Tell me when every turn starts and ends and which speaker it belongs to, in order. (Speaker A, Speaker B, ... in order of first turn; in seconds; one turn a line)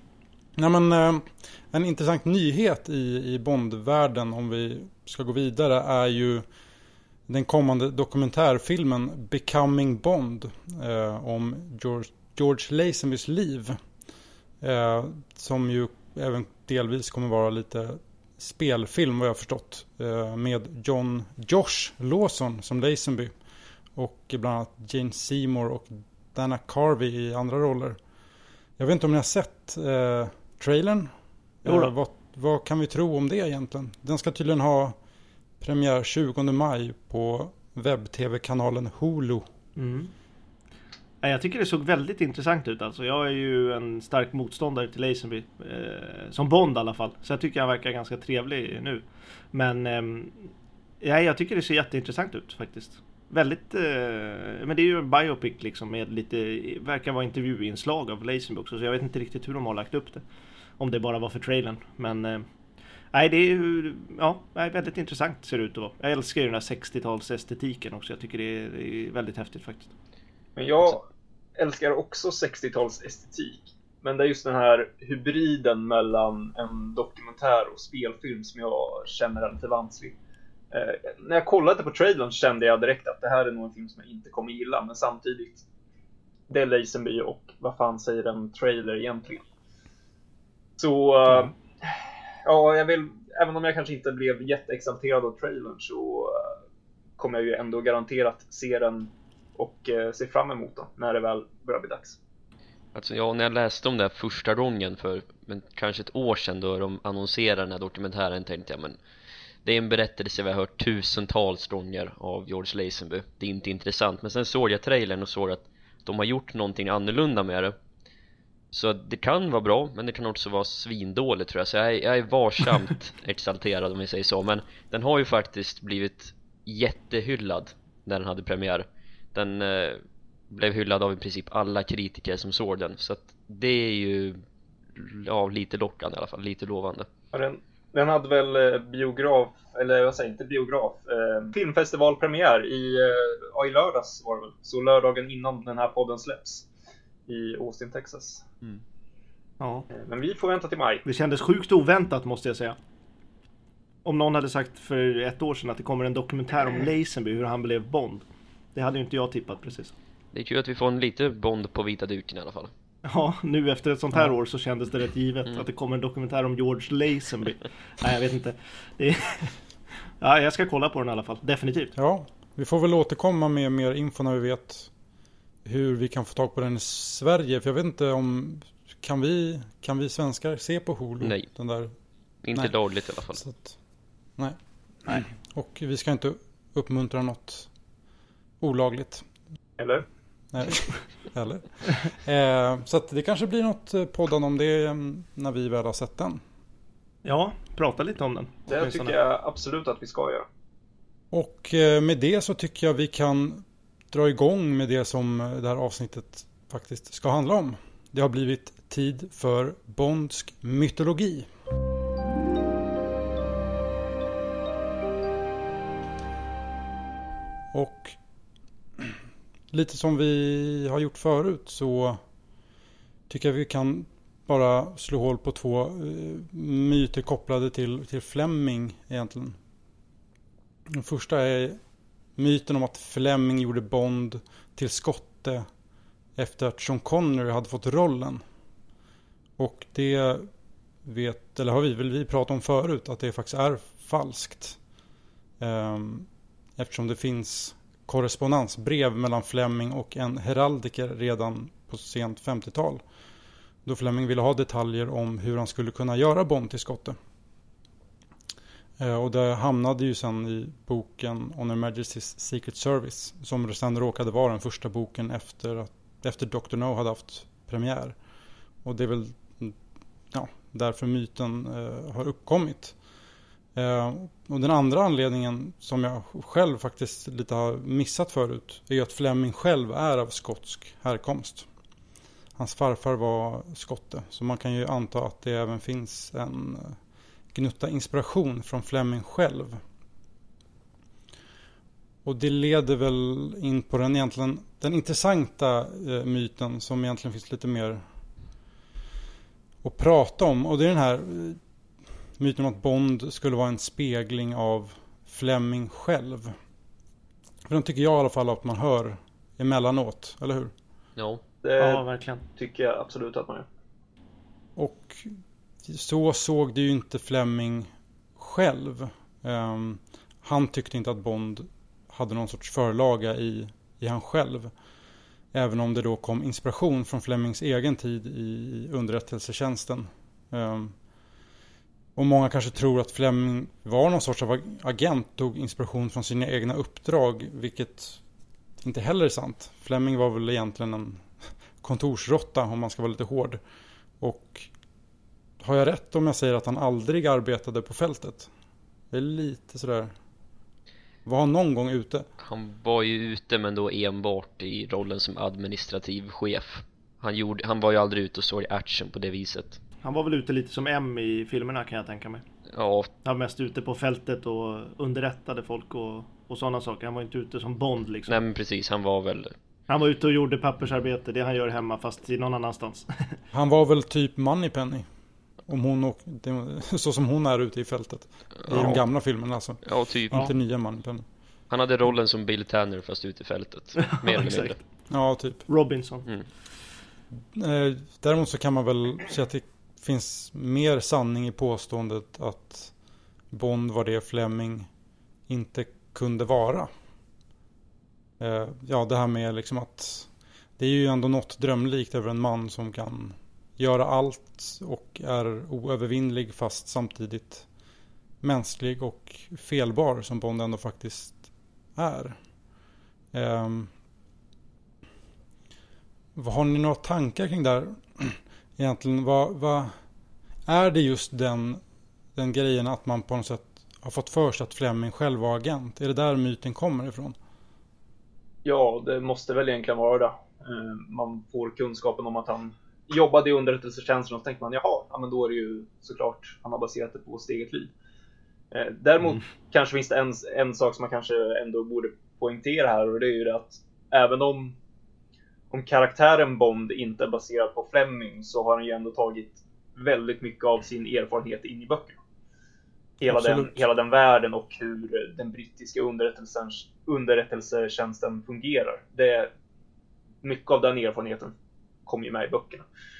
Speaker A: 0.6-6.4
Speaker A: 7.3-13.8
Speaker A: 14.6-23.3
Speaker A: 23.9-28.0
Speaker A: 28.8-31.1
Speaker A: 31.6-35.0
Speaker B: 31.6-31.9
Speaker A: 35.6-39.4
Speaker B: 39.8-40.1
Speaker B: 41.2-60.2
Speaker B: 60.8-62.5
Speaker B: 63.1-69.9
Speaker C: 70.5-71.0
Speaker C: 71.6-80.2
Speaker C: 80.7-85.6
Speaker C: 86.5-89.4
Speaker C: 90.8-91.9
Speaker C: 92.4-96.5
Speaker C: 97.2-102.2
Speaker D: 102.9-109.0
Speaker D: 109.6-117.7
Speaker D: 118.7-134.4
Speaker D: 134.9-137.1
Speaker C: 137.3-146.7
Speaker C: 147.3-148.4
Speaker B: 149.6-149.9
Speaker C: 149.9-151.0
Speaker B: 151.0-152.8
Speaker B: 154.0-158.2
Speaker B: 158.7-159.9
Speaker D: 160.3-162.7
Speaker B: 163.0-169.5
Speaker B: 170.2-171.9
Speaker A: 171.9-174.9
Speaker A: 175.6-181.9
Speaker D: 181.2-181.5
Speaker D: 182.4-183.4
Speaker A: 183.4-183.7
Speaker A: 184.4-187.7
Speaker A: 188.6-189.2
Speaker C: 189.8-190.1
Speaker A: 190.5-196.4
Speaker B: 197.2-199.1
Speaker C: 198.7-200.4
Speaker A: 201.3-211.5
Speaker A: 217.7-218.2
Speaker A: 219.0-222.2
Speaker A: 223.3-229.6
Speaker A: 230.9-231.8
Speaker A: 232.3-235.7
Speaker A: 236.3-238.4
Speaker A: 239.6-240.5
Speaker A: 241.0-244.8
Speaker A: 245.6-253.0
Speaker A: 253.8-257.1
Speaker A: 259.0-268.1
Speaker A: 268.8-269.8
Speaker A: 270.3-272.9
Speaker A: 273.7-281.6
Speaker A: 282.6-287.0
Speaker A: 287.5-289.8
Speaker A: 292.2-298.0
Speaker A: 299.8-301.6
Speaker A: 302.4-306.5
Speaker A: 307.7-310.7
Speaker D: 311.1-311.4
Speaker C: 311.6-313.6
Speaker B: 311.8-312.4
Speaker A: 314.8-324.7
Speaker A: 325.5-330.9
Speaker A: 332.1-338.2
Speaker A: 338.8-341.3
Speaker A: 341.8-343.6
Speaker A: 344.2-344.7
Speaker A: 345.6-348.5
Speaker A: 349.1-350.1
Speaker A: 351.2-352.3
Speaker D: 352.4-359.8
Speaker B: 360.0-362.4
Speaker D: 362.7-363.1
Speaker B: 363.2-368.4
Speaker D: 368.3-369.5
Speaker B: 369.9-373.4
Speaker A: 373.5-375.1
Speaker A: 375.7-381.2
Speaker D: 378.6-379.0
Speaker D: 379.8-380.5
Speaker D: 381.7-384.8
Speaker B: 384.0-384.8
Speaker A: 385.1-385.6
Speaker B: 385.7-386.3
Speaker A: 387.5-392.9
Speaker A: 393.5-394.9
Speaker A: 395.5-396.9
Speaker A: 398.4-407.7
Speaker A: 408.4-412.4
Speaker A: 413.3-413.9
Speaker A: 416.3-419.9
Speaker A: 420.7-421.8
Speaker A: 422.3-427.3
Speaker C: 428.6-437.9
Speaker C: 438.7-444.8
Speaker C: 445.7-452.2
Speaker C: 453.2-459.5
Speaker A: 453.2-453.8
Speaker C: 460.4-461.5
Speaker C: 462.1-462.9